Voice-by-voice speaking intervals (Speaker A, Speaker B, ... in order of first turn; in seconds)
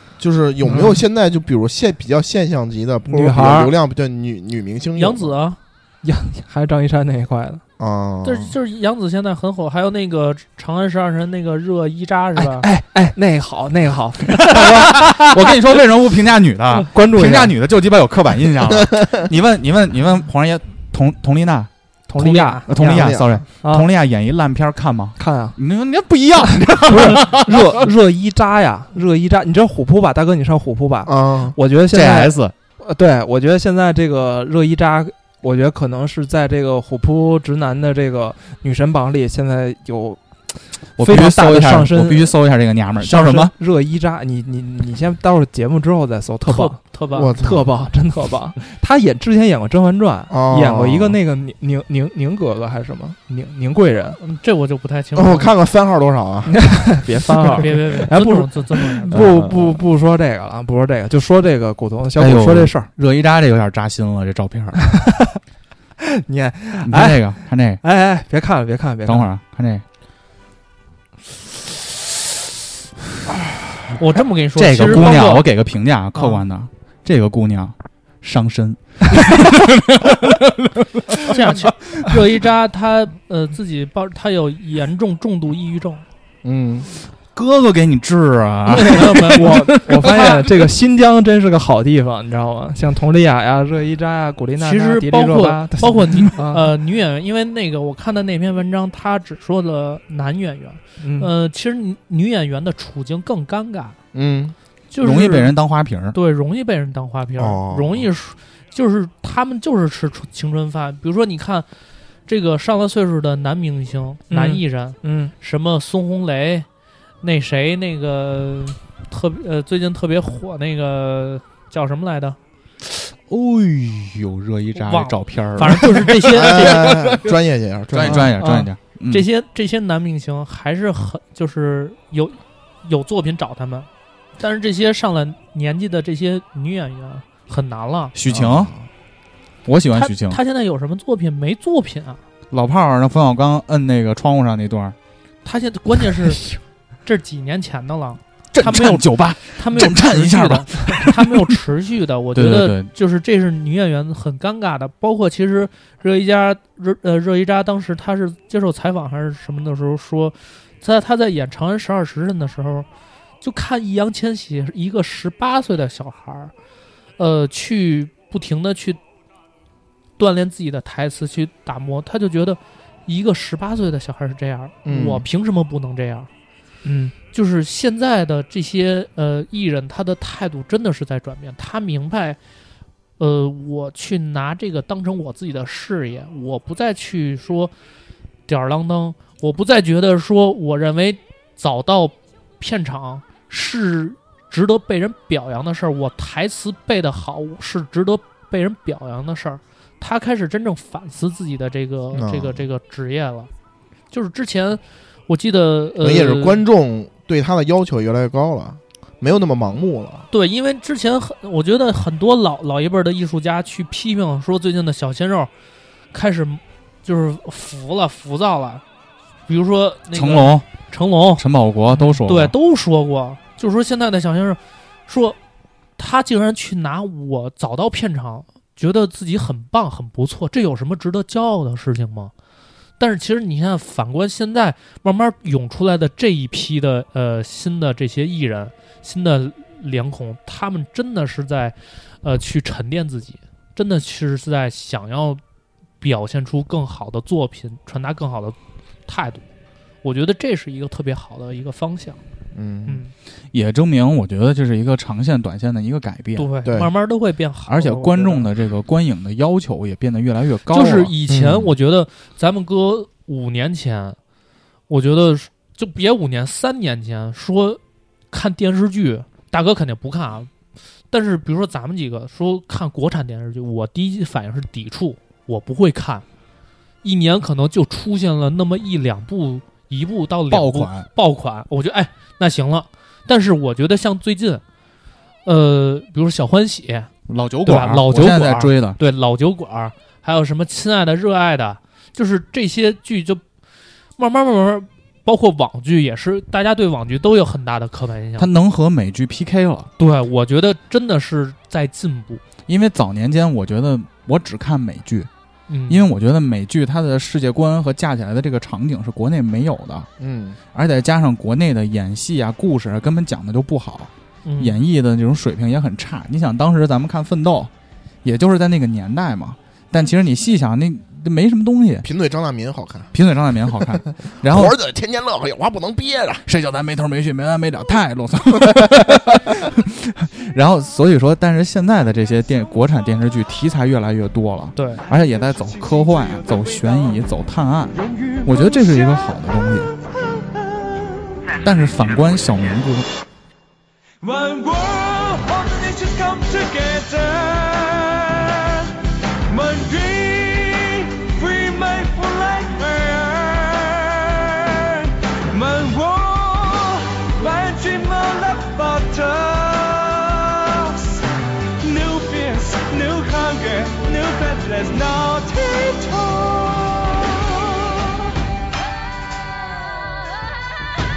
Speaker A: 0.2-5.4, 7.8-8.5, 22.7-23.4, 31.1-31.6, 47.1-47.7, 50.3-51.2, 55.1-57.0, 59.1-59.8, 86.4-86.9, 104.1-104.5, 107.4-108.1, 126.3-128.4, 138.3-138.9, 174.8-175.3, 202.1-202.7, 206.0-210.3, 252.6-253.0, 256.6-256.9, 261.3-261.7, 310.2-310.6, 322.0-323.1, 323.8-326.4
Speaker B: 0.7-0.9, 3.1-3.7, 6.0-7.6, 12.4-15.0, 16.9-17.5, 22.5-23.1, 25.2-25.6, 26.9-40.2, 40.8-42.4, 43.0-46.8, 47.4-54.2, 56.5-62.9, 66.2-69.3, 89.3-96.7, 101.0-101.3, 114.3-115.3, 128.1-128.7, 176.8-177.1
Speaker C: 5.0-5.6, 8.2-12.7, 22.1-22.7, 46.5-47.4, 54.2-55.5, 57.6-59.3, 74.0-75.5, 81.2-86.0, 88.7-90.4, 94.6-104.0, 104.9-105.5, 106.1-111.7, 112.3-116.7, 117.2-122.4, 124.8-127.1, 129.1-138.1, 139.9-142.2, 145.4-162.9, 163.4-166.5, 167.2-169.0, 170.2-176.3, 177.3-182.4, 183.2-187.7, 188.5-203.5, 204.1-206.6, 210.3-215.5, 216.1-218.8, 219.5-221.4, 222.2-225.4, 226.0-232.3, 233.0-245.4, 246.0-249.4, 250.0-252.2, 252.9-253.1, 256.4-258.5, 260.7-264.2, 264.9-267.8, 268.3-270.5, 271.1-276.2, 277.0-284.6, 285.4-287.1, 287.6-293.4, 294.2-298.5, 300.0-302.4, 305.7-306.0, 314.4-314.8, 334.8-335.0
Speaker D: 14.3-27.8, 31.9-32.5, 41.0-43.5, 57.0-57.7, 62.2-65.0, 66.8-67.8, 69.0-69.8, 74.6-81.5, 87.3-90.0, 105.0-106.2, 122.9-127.2, 127.9-129.3, 138.2-138.7, 139.7-140.4, 142.5-144.9, 148.5-151.2, 152.3-152.9, 220.1-220.7, 221.4-222.5, 253.5-256.5, 257.7-261.1, 280.5-281.1, 287.3-289.0, 298.4-299.9, 302.7-305.3, 305.9-310.1, 310.7-317.7, 318.2-322.1, 323.1-324.8, 326.5-339.9, 341.6-343.1
Speaker E: 344.2-348.9, 349.5-361.2, 361.8-367.9